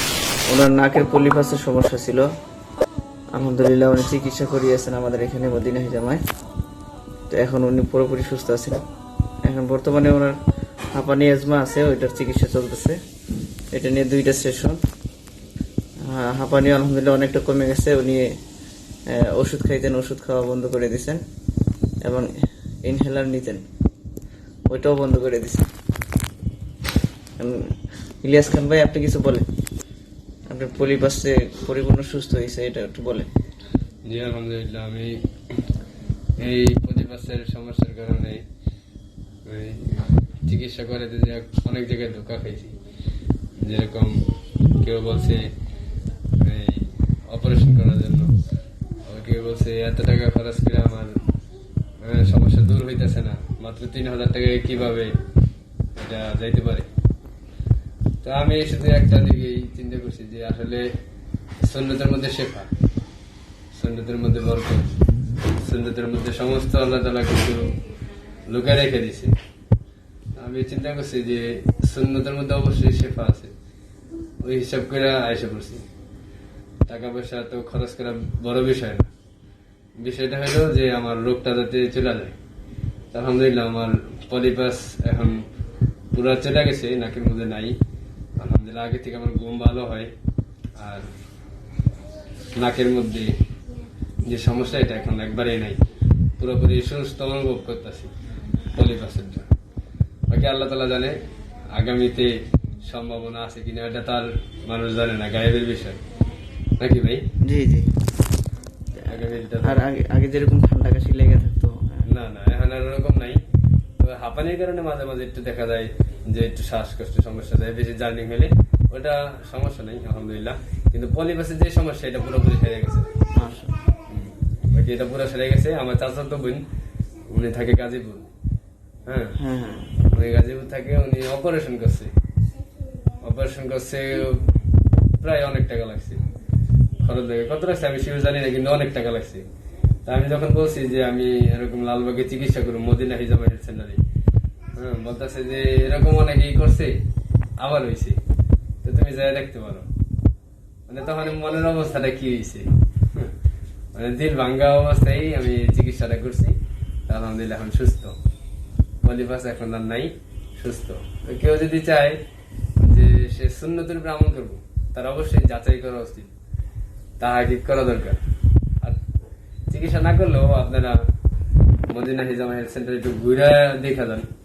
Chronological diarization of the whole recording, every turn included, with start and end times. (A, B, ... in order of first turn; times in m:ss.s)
0:00.5-0:02.3 A
0:03.3-0:06.2 A
0:07.3-0:08.8 A
0:09.4-0:10.4 A
0:10.9-0:13.0 A
0:13.7-0:14.8 A
0:16.0-0:18.3 A
0:19.1-0:21.2 A
0:22.8-0:23.6 A
0:24.7-0:25.7 A
0:27.4-0:27.7 A
0:28.2-0:29.4 A
0:30.5-0:33.3 A
0:34.0-0:35.3 B
0:36.4-0:38.4 B
0:39.4-0:42.8 B
0:43.6-0:45.5 B
0:46.4-0:48.4 B
0:49.1-0:51.2 B
0:52.0-0:55.2 B
0:56.0-0:56.9 B
0:58.2-1:00.9 B
1:01.6-1:02.7 B
1:03.7-1:05.0 B
1:05.5-1:07.8 B
1:08.5-1:09.3 B
1:10.4-1:13.5 B
1:14.4-1:15.8 B
1:16.9-1:19.1 B
1:20.0-1:22.3 B
1:23.1-1:25.4 B
1:26.1-1:27.8 B
1:28.4-1:30.1 B
1:30.8-1:31.1 B
1:32.6-1:33.4 B
1:34.2-1:35.8 B
1:36.4-1:38.1 B
1:38.7-1:39.5 B
1:40.3-1:41.2 B
1:41.7-1:46.0 B
1:46.8-1:47.2 B
1:47.4-1:47.9 A
1:49.0-1:49.8 B
1:49.0-1:52.0 A
1:52.0-1:53.4 B
1:54.0-2:03.1 B
2:03.3-2:03.7 A
2:04.1-2:06.6 B
2:07.3-2:08.3 B
2:09.1-2:09.4 B
2:09.4-2:09.9 A
2:10.1-2:12.1 B
2:13.2-2:14.5 B
2:15.2-2:16.2 B
2:17.0-2:19.4 B
2:20.0-2:24.0 B
2:24.7-2:27.0 B
2:27.6-2:28.2 B
2:28.8-2:29.9 B
2:30.9-2:33.3 B
2:33.9-2:36.6 B
2:37.1-2:38.2 B
2:39.0-2:42.2 B
2:42.8-2:46.3 B
2:47.2-2:48.2 B
2:49.7-2:51.0 B
2:51.9-2:54.3 B